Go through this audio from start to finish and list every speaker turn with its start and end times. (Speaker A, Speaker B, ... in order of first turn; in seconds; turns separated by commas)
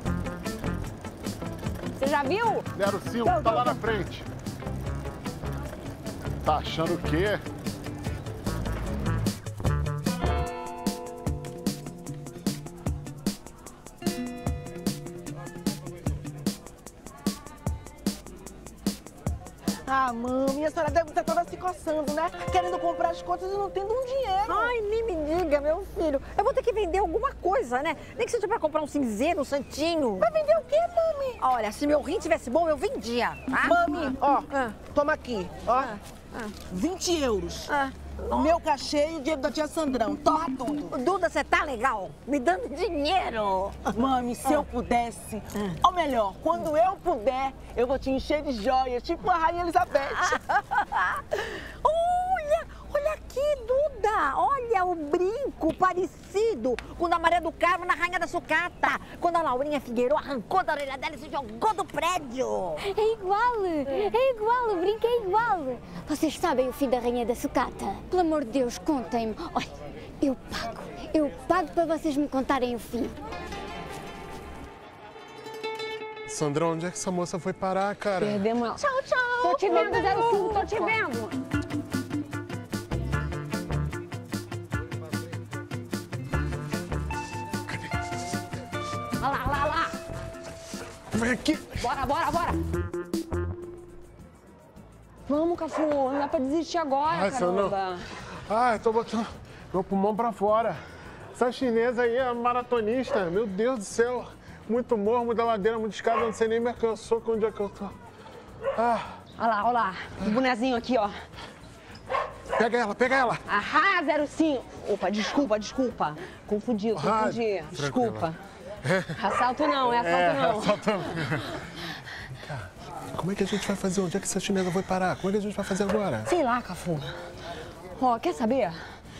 Speaker A: 1.9-2.7, Speaker B: 2.7-4.2, Speaker A: 3.2-3.7, Speaker B: 6.4-7.4, Speaker C: 19.9-24.7, Speaker D: 24.4-30.3, Speaker C: 30.2-31.4, Speaker D: 31.4-34.7, Speaker C: 33.6-36.0, Speaker D: 35.7-36.5, Speaker C: 36.7-37.7, Speaker D: 37.7-38.5, Speaker C: 38.3-40.9, Speaker D: 40.9-43.9, Speaker C: 43.9-50.4, Speaker D: 50.2-62.8, Speaker E: 62.8-73.2, Speaker B: 76.3-78.4, Speaker A: 78.2-78.8, Speaker D: 78.8-80.8, Speaker A: 79.4-81.3, Speaker A: 89.2-89.9, Speaker B: 91.1-91.9, Speaker A: 91.8-92.6, Speaker A: 95.3-98.0, Speaker B: 97.1-97.8, Speaker B: 98.3-100.8, Speaker B: 101.3-107.9, Speaker B: 108.8-109.1, Speaker A: 109.4-111.2, Speaker B: 112.5-113.4, Speaker A: 113.5-118.4, Speaker B: 116.9-118.3, Speaker B: 118.8-119.2, Speaker A: 119.2-121.0, Speaker B: 119.8-121.6, Speaker B: 122.4-126.3, Speaker A: 126.2-127.1, Speaker A: 128.0-128.8